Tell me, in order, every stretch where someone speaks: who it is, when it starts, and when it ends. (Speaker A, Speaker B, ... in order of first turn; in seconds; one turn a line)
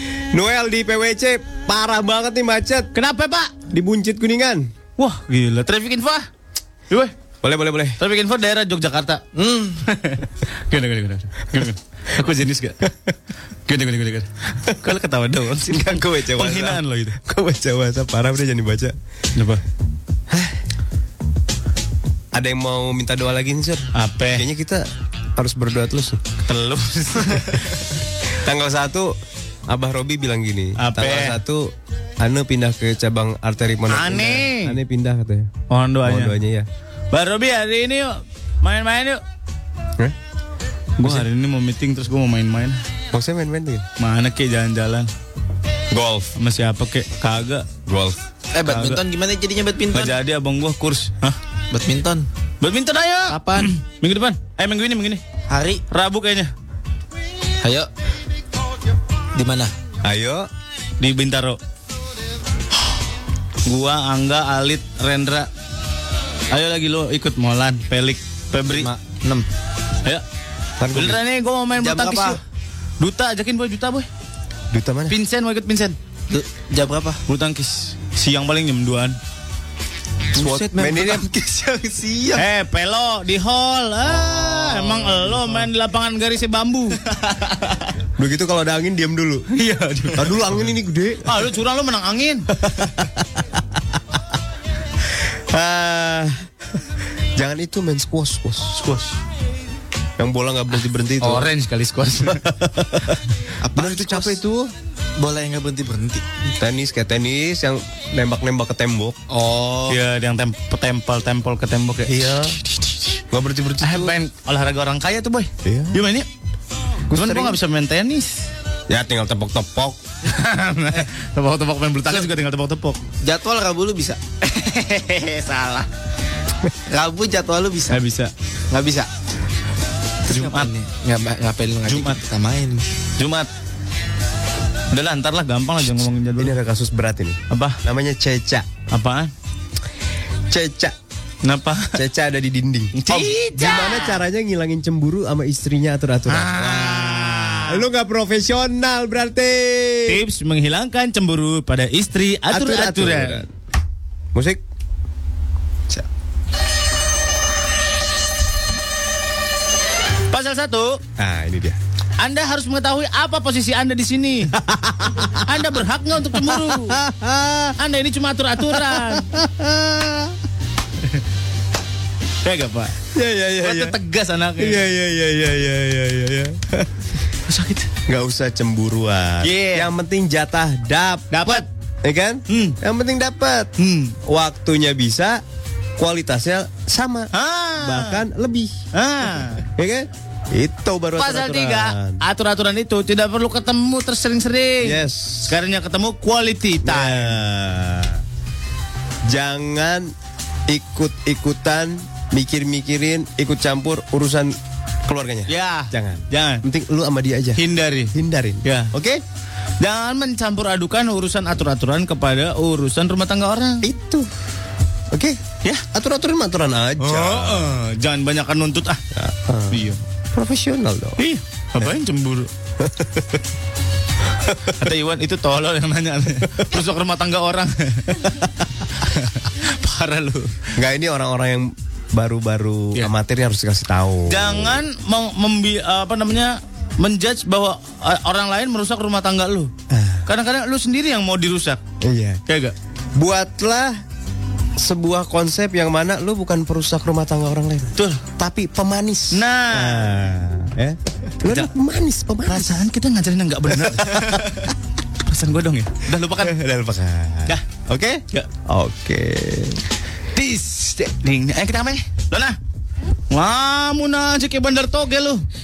Speaker A: 0.3-2.9
Speaker B: 2.9-3.5
Speaker A: 3.7-4.7
Speaker B: 5.0-6.3
Speaker A: 7.4-8.0
Speaker B: 8.0-9.2
Speaker C: 9.3-9.8
Speaker B: 9.8-12.8
Speaker B: 13.7-17.2
Speaker A: 15.6-18.9
Speaker B: 19.4-19.6
Speaker A: 20.3-20.6
Speaker A: 22.3-26.2
Speaker B: 23.9-24.5
Speaker B: 26.4-27.6
Speaker A: 28.3-29.1
Speaker A: 29.7-35.5
Speaker B: 30.8-31.4
Speaker B: 33.9-34.8
Speaker B: 35.7-36.4
Speaker A: 36.0-36.7
Speaker B: 37.1-39.2
Speaker B: 41.0-42.8
Speaker A: 43.1-43.9
Speaker B: 44.0-45.1
Speaker A: 45.9-46.3
Speaker B: 46.4-47.7
Speaker A: 47.9-48.2
Speaker C: 48.5-50.1
Speaker B: 48.6-49.0
Speaker B: 49.9-51.4
Speaker C: 51.7-52.3
Speaker B: 52.6-55.2
Speaker C: 53.3-53.7
Speaker C: 55.5-55.8
Speaker B: 55.9-56.5
Speaker C: 57.6-57.9
Speaker C: 59.4-59.7
Speaker A: 60.0-60.5
Speaker B: 61.0-61.6
Speaker B: 63.7-65.5
Speaker B: 66.5-68.9
Speaker C: 68.7-69.5
Speaker A: 70.8-71.2
Speaker B: 70.9-72.4
Speaker C: 71.8-72.4
Speaker B: 73.0-74.1
Speaker A: 74.7-75.2
Speaker B: 75.1-76.0
Speaker C: 76.3-77.2
Speaker B: 77.3-79.2
Speaker C: 80.3-82.4
Speaker A: 80.3-81.3
Speaker B: 82.4-87.8
Speaker A: 88.2-89.5
Speaker B: 89.5-90.7
Speaker A: 90.1-91.3
Speaker B: 91.2-92.5
Speaker A: 92.6-93.5
Speaker A: 95.2-96.5
Speaker A: 97.4-98.8
Speaker B: 98.8-99.2
Speaker A: 100.2-101.5
Speaker B: 101.2-102.4
Speaker A: 102.3-103.2
Speaker C: 103.6-104.4
Speaker A: 103.8-104.7
Speaker C: 105.2-106.2
Speaker A: 106.6-109.2
Speaker C: 109.3-110.0
Speaker B: 109.9-113.2
Speaker A: 112.1-112.6
Speaker A: 113.3-114.2
Speaker B: 113.8-116.3
Speaker A: 115.6-116.0
Speaker A: 117.1-117.6
Speaker B: 117.1-118.4
Speaker A: 118.9-120.0
Speaker B: 120.3-123.0
Speaker C: 123.2-124.2
Speaker B: 124.4-125.9
Speaker C: 126.9-128.0
Speaker B: 127.9-128.3
Speaker C: 128.7-129.1
Speaker C: 130.3-132.8
Speaker B: 130.3-130.7
Speaker B: 131.9-132.2
Speaker B: 133.2-133.5
Speaker B: 134.9-136.5
Speaker A: 136.4-138.7
Speaker B: 137.5-137.8
Speaker B: 138.9-139.3
Speaker A: 140.5-140.9
Speaker B: 141.4-142.0
Speaker A: 141.9-150.2
Speaker B: 142.9-144.2
Speaker B: 146.3-147.8
Speaker B: 150.1-153.4
Speaker A: 152.5-153.5
Speaker A: 154.3-154.6
Speaker B: 160.3-161.0
Speaker A: 161.2-161.8
Speaker B: 162.2-164.6
Speaker A: 164.6-165.5
Speaker B: 165.4-167.0
Speaker A: 166.3-167.8
Speaker B: 167.8-169.4
Speaker A: 168.7-170.1
Speaker B: 172.4-173.0
Speaker A: 173.1-174.0
Speaker B: 173.6-174.9
Speaker A: 174.6-176.9
Speaker B: 177.5-177.9
Speaker A: 178.1-183.7
Speaker B: 179.4-179.9
Speaker B: 181.3-181.7
Speaker B: 182.5-182.8
Speaker B: 183.8-184.2
Speaker A: 184.2-185.4
Speaker A: 186.0-188.7
Speaker B: 187.3-188.2
Speaker B: 188.9-189.6
Speaker A: 189.8-192.2
Speaker B: 191.2-197.4
Speaker A: 194.8-195.5
Speaker A: 196.8-198.2
Speaker A: 199.3-200.1
Speaker A: 200.7-207.6
Speaker B: 205.5-206.6
Speaker B: 207.6-208.1
Speaker A: 208.1-209.2
Speaker B: 208.6-208.9
Speaker B: 209.8-213.8
Speaker A: 213.8-214.3
Speaker A: 215.1-215.4
Speaker A: 215.9-217.7
Speaker B: 217.0-219.0
Speaker A: 219.1-221.2
Speaker B: 219.7-220.0
Speaker B: 221.2-222.5
Speaker A: 222.8-223.4
Speaker B: 224.7-230.6
Speaker A: 230.8-234.8
Speaker B: 234.3-239.7
Speaker A: 239.9-240.2
Speaker B: 240.3-241.8
Speaker A: 242.0-242.4
Speaker B: 242.5-242.8
Speaker A: 243.2-244.0
Speaker A: 244.8-252.9
Speaker B: 248.0-248.2
Speaker B: 249.3-250.1
Speaker B: 252.4-254.4
Speaker A: 253.8-254.5
Speaker B: 255.2-256.6
Speaker A: 256.4-259.8
Speaker B: 260.4-262.6
Speaker B: 263.3-265.4